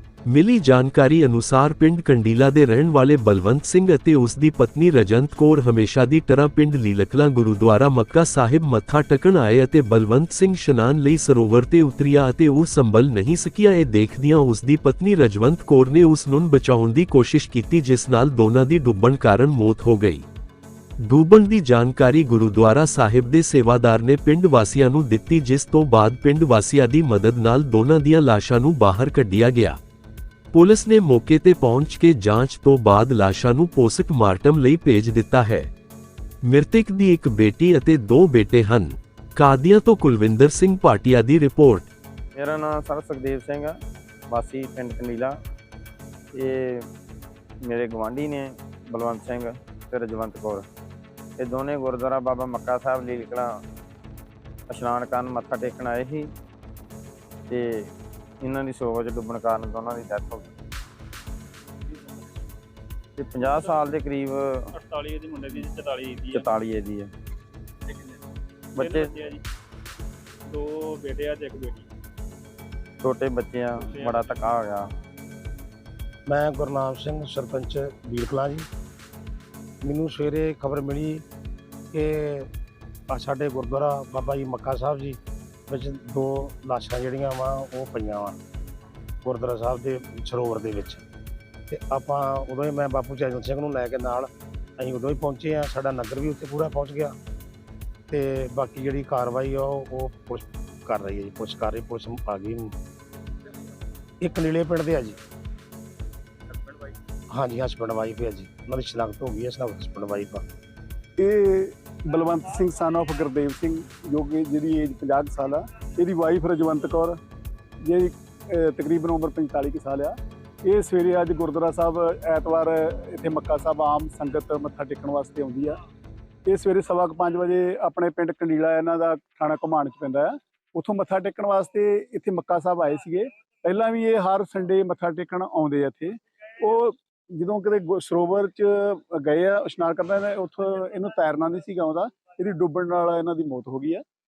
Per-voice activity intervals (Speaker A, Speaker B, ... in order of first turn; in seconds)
Speaker A: 0.3-20.2, 21.0-29.8, 30.5-35.7, 36.5-41.9
Speaker B: 42.3-43.7, 44.3-45.4, 46.3-46.8, 47.6-50.6, 51.4-53.5, 54.7-56.3, 57.5-57.9, 58.4-60.5, 63.2-64.7, 66.3-67.1, 68.8-69.1, 73.0-74.9
Speaker C: 64.7-66.5, 67.9-68.2, 68.8-69.4, 70.5-71.9, 73.9-74.2
Speaker D: 76.3-78.7, 79.8-81.2, 81.9-82.5, 83.1-88.4, 89.2-91.0, 91.7-97.2, 98.1-102.7, 104.2-105.2, 107.3-110.4
Speaker E: 111.2-117.2, 117.8-125.8, 126.5-144.0